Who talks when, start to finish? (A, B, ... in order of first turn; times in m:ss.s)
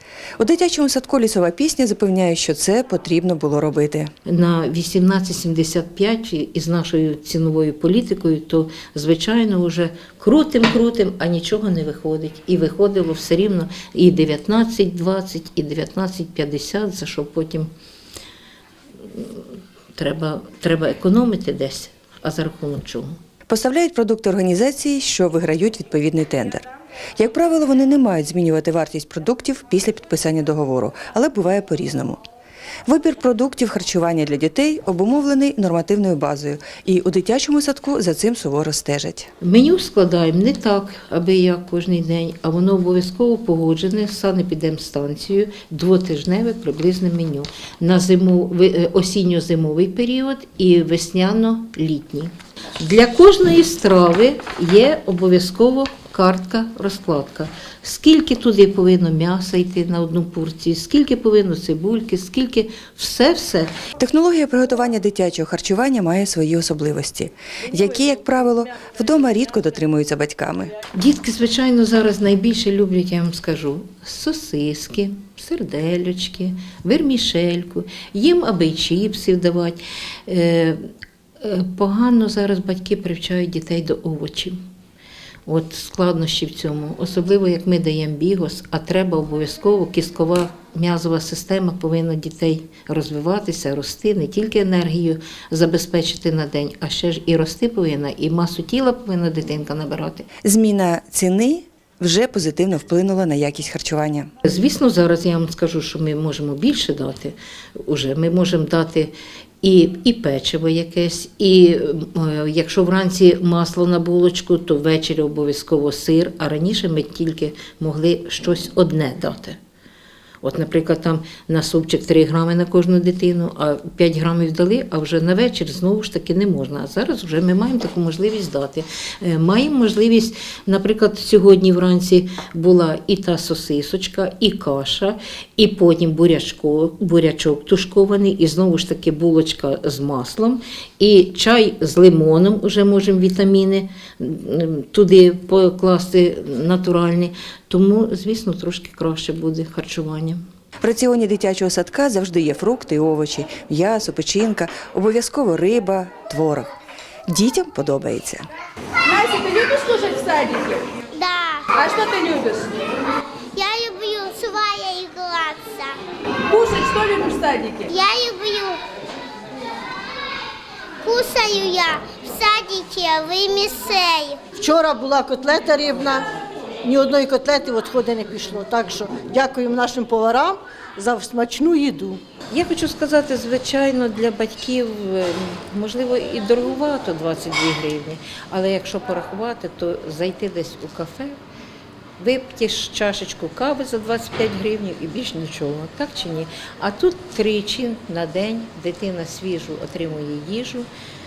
0:00.4-0:04.1 A
0:04.2-0:17.7 B
0:19.1-0:19.4 B
0:19.9-0:23.2 B
0:23.5-0:32.2 A
0:32.8-0:39.3 A
0:39.4-1:03.7 B
1:04.0-1:10.7 A
1:10.9-1:20.8 B
1:21.4-1:24.6 B
1:25.4-1:40.3 B
1:40.4-1:44.3 A
1:44.4-1:59.6 B
2:00.4-2:30.4 B
2:30.8-2:36.7 A
2:37.3-2:38.5 A
2:39.0-2:40.9 C
2:41.1-2:41.9 D
2:41.8-2:42.8 C
2:43.5-2:46.0 D
2:46.5-2:47.9 C
2:47.9-2:48.8 D
2:51.0-2:54.4 D
2:54.6-2:56.3 E
2:56.8-3:02.2 E
3:02.5-3:11.4 B
3:12.2-3:20.9 B